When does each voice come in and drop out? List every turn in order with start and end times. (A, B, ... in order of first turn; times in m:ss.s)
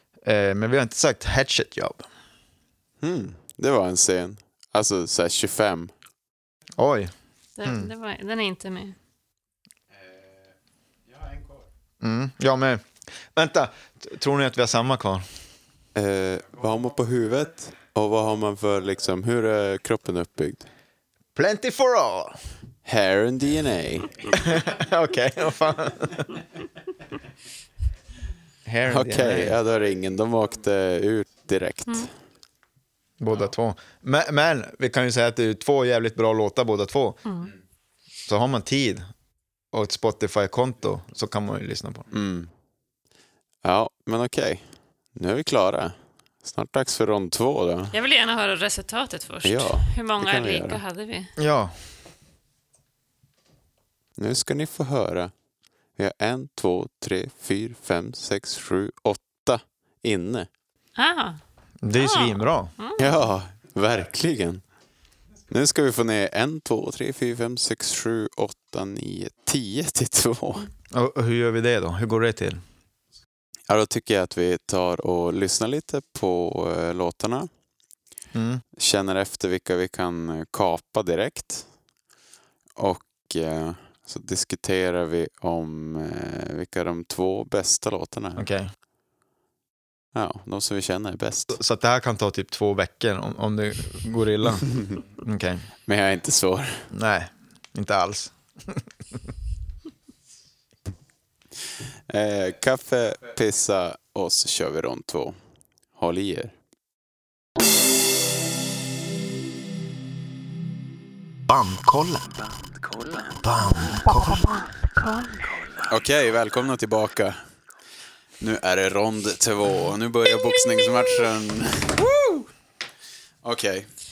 0:00.2-0:02.0 A
0:03.0-0:05.9 B
0:06.8-0:07.1 A
0:07.6-0:09.0 C
0:07.6-0:07.9 A
0:12.0-0:15.2 A
0:15.9-0:20.7 B
0:21.3-0:22.4 A
0:22.8-0:24.2 B
0:24.4-0:26.4 A
0:28.6-0:29.6 A
0:28.8-0:32.1 B
0:33.2-0:37.2 A
0:37.2-0:37.5 C
0:38.3-0:39.1 A
0:39.7-0:42.0 A
0:42.1-0:42.5 B
0:43.6-0:47.9 B
0:47.9-0:51.3 C
0:49.4-0:50.8 B
0:51.4-0:51.8 A
0:54.2-0:55.3 B
0:56.0-1:00.5 B
1:01.0-1:01.4 C
1:01.8-1:02.7 A
1:01.9-1:03.1 C
1:03.0-1:04.6 B
1:05.5-1:10.7 B
1:10.9-1:12.6 A
1:13.7-1:17.5 B
1:18.3-1:18.6 A
1:18.8-1:21.7 B
1:22.8-1:28.4 B
1:28.4-1:28.7 A
1:30.1-1:31.6 B
1:31.5-1:35.6 A
1:35.9-1:36.9 B
1:36.9-1:38.8 A
1:42.1-1:45.4 B
1:46.0-1:46.5 B
1:51.5-1:52.3 A
1:53.4-1:54.5 A
1:53.9-1:55.5 C
1:55.9-1:57.4 B
1:58.4-2:02.4 B
2:03.4-2:03.9 B